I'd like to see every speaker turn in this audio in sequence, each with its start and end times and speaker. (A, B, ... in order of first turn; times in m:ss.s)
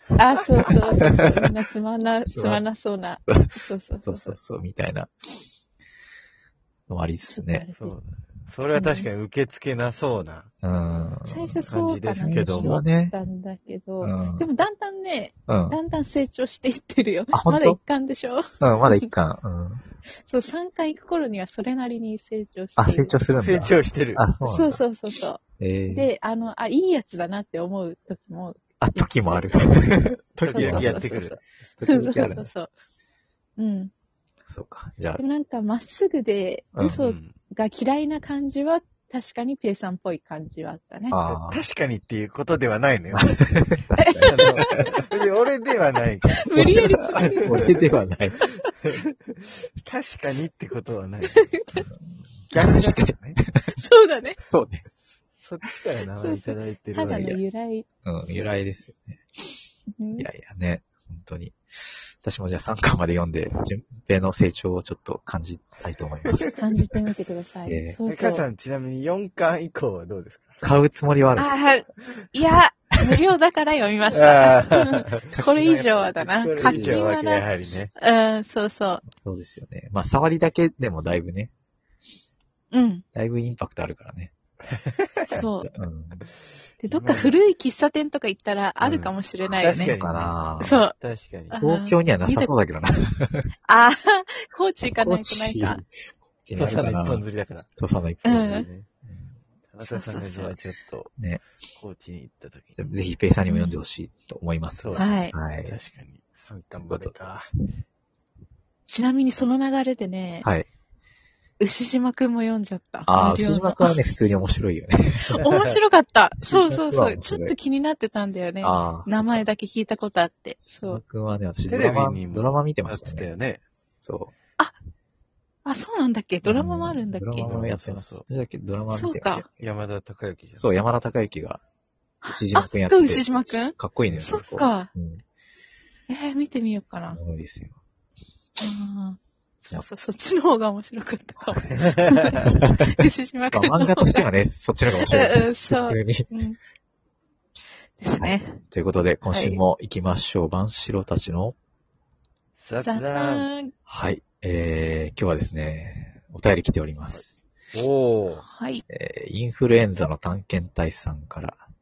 0:00.1-0:04.4 A
0:00.6-0:01.4 B
0:02.3-0:02.6 B
0:03.2-0:05.1 B
0:06.9-0:07.7 B
0:07.3-0:08.0 A
0:07.8-0:10.5 C
0:08.7-0:09.1 A
0:10.6-0:11.7 B
0:11.2-0:19.1 A
0:11.6-0:12.8 C
0:12.2-0:13.1 B
0:14.0-0:14.5 B
0:15.5-0:15.8 B
0:17.3-0:17.8 B
0:18.6-0:19.8 B
0:20.3-0:23.2 A
0:22.8-0:24.8 B
0:23.4-0:24.2 C
0:24.4-0:29.5 A
0:25.6-0:26.1 B
0:28.8-0:31.1 B
0:30.4-0:31.4 C
0:30.5-0:32.7 A
0:31.8-0:32.5 B
0:33.6-0:33.9 A
0:34.5-0:35.2 B
0:35.2-0:41.2 A
0:37.0-0:37.4 C
0:41.1-0:41.6 B
0:41.3-0:43.5 C
0:43.1-0:44.8 B
0:44.0-0:44.8 A
0:44.2-0:47.8 C
0:46.3-0:47.7 A
0:46.5-0:48.4 B
0:48.8-0:51.5 C
0:51.3-0:51.8 A
0:51.7-0:53.6 B
0:52.5-0:53.4 C
0:53.8-0:54.4 A
0:54.4-0:54.9 B
0:55.4-0:57.4 C
0:56.2-0:57.8 A
0:58.0-0:59.2 B
1:00.0-1:00.3 A
1:00.2-1:06.7 B
1:06.6-1:08.4 A
1:07.6-1:08.0 B
1:08.0-1:10.6 C
1:10.6-1:11.5 B
1:11.4-1:19.0 A
1:14.1-1:17.9 C
1:16.6-1:17.0 B
1:19.1-1:21.5 B
1:22.7-1:23.0 A
1:23.1-1:24.3 B
1:24.7-1:25.2 C
1:25.2-1:25.7 A
1:25.7-1:26.3 B
1:26.8-1:30.0 A
1:26.9-1:27.4 C
1:28.8-1:31.6 C
1:29.8-1:30.8 B
1:30.6-1:30.9 A
1:31.5-1:32.5 A
1:31.6-1:33.4 B
1:33.6-1:35.8 A
1:34.9-1:35.9 B
1:36.4-1:37.2 B
1:36.6-1:37.7 C
1:37.8-1:38.7 B
1:38.2-1:38.7 A
1:38.3-1:38.9 C
1:39.7-1:41.2 C
1:39.8-1:40.6 A
1:41.8-1:42.8 C
1:42.8-1:45.8 B
1:43.5-1:43.8 A
1:44.8-1:47.5 C
1:45.0-1:45.4 A
1:46.7-1:47.1 B
1:48.9-1:50.5 A
1:51.6-1:54.0 A
1:53.1-1:55.4 B
1:55.2-2:01.0 A
1:56.4-1:57.5 B
1:58.6-1:59.4 B
2:00.8-2:03.3 B
2:01.6-2:03.6 C
2:04.0-2:04.3 B
2:05.6-2:07.5 A
2:06.4-2:09.5 B
2:07.4-2:08.2 C
2:08.9-2:09.5 A
2:09.6-2:10.7 C
2:10.5-2:11.6 B
2:12.2-2:14.9 A
2:12.3-2:15.2 B
2:16.1-2:17.2 A
2:17.1-2:17.8 B
2:18.6-2:24.3 A
2:21.7-2:22.4 C
2:22.4-2:22.9 B
2:23.5-2:26.3 B
2:25.0-2:26.6 A
2:28.0-2:28.6 A
2:28.2-2:31.6 B
2:29.2-2:29.6 A
2:32.6-2:33.5 C
2:32.8-2:33.7 A
2:33.9-2:37.4 B
2:37.7-2:38.4 C
2:38.4-2:38.8 A
2:38.9-2:41.6 B